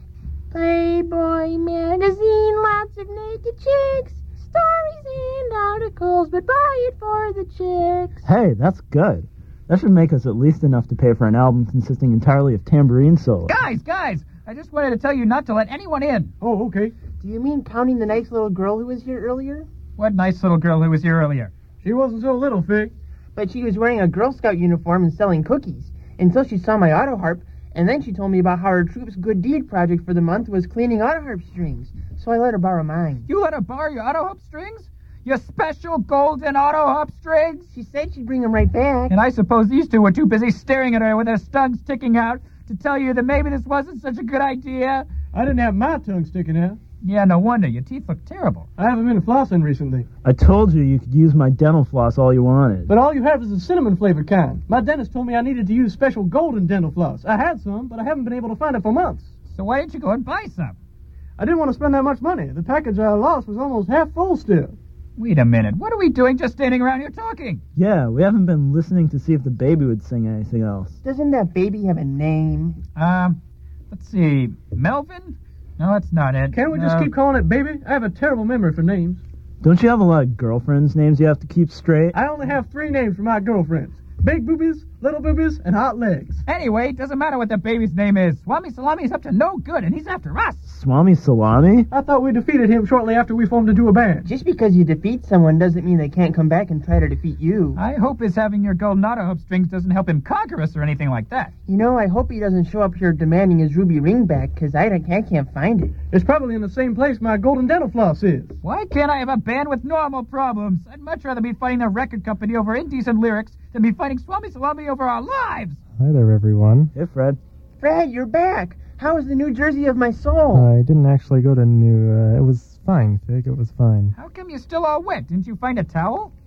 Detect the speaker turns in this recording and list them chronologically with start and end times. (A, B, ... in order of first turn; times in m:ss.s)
0:00.5-0:08.2 A
0:08.2-0:13.6 B
0:13.5-0:16.3 C
0:16.4-0:16.9 D
0:17.2-0:19.7 E
0:20.0-0:21.5 C
0:21.8-0:22.9 D
0:23.4-0:33.2 E
0:33.3-0:37.7 C
0:37.7-0:39.1 E
0:39.1-0:45.1 C
0:45.3-0:46.8 D
0:47.0-0:48.7 C
0:48.8-0:50.1 D
0:50.2-0:52.9 B
0:52.9-0:59.3 D
0:59.5-1:00.8 C
1:01.4-1:04.8 D
1:05.2-1:07.6 C
1:07.8-1:11.0 B
1:11.0-1:12.8 E
1:13.0-1:13.4 C
1:13.9-1:17.1 C
1:16.5-1:19.2 D
1:19.6-1:22.2 B
1:22.1-1:26.4 D
1:26.5-1:30.6 C
1:30.7-1:31.9 B
1:31.9-1:34.3 D
1:34.3-1:37.8 E
1:37.8-1:41.5 C
1:41.7-1:46.0 E
1:46.1-1:48.6 D
1:48.6-1:55.8 C
1:56.0-1:56.9 F
1:56.9-1:57.4 B
1:57.8-2:00.7 E
2:00.5-2:04.1 F
2:04.2-2:06.3 C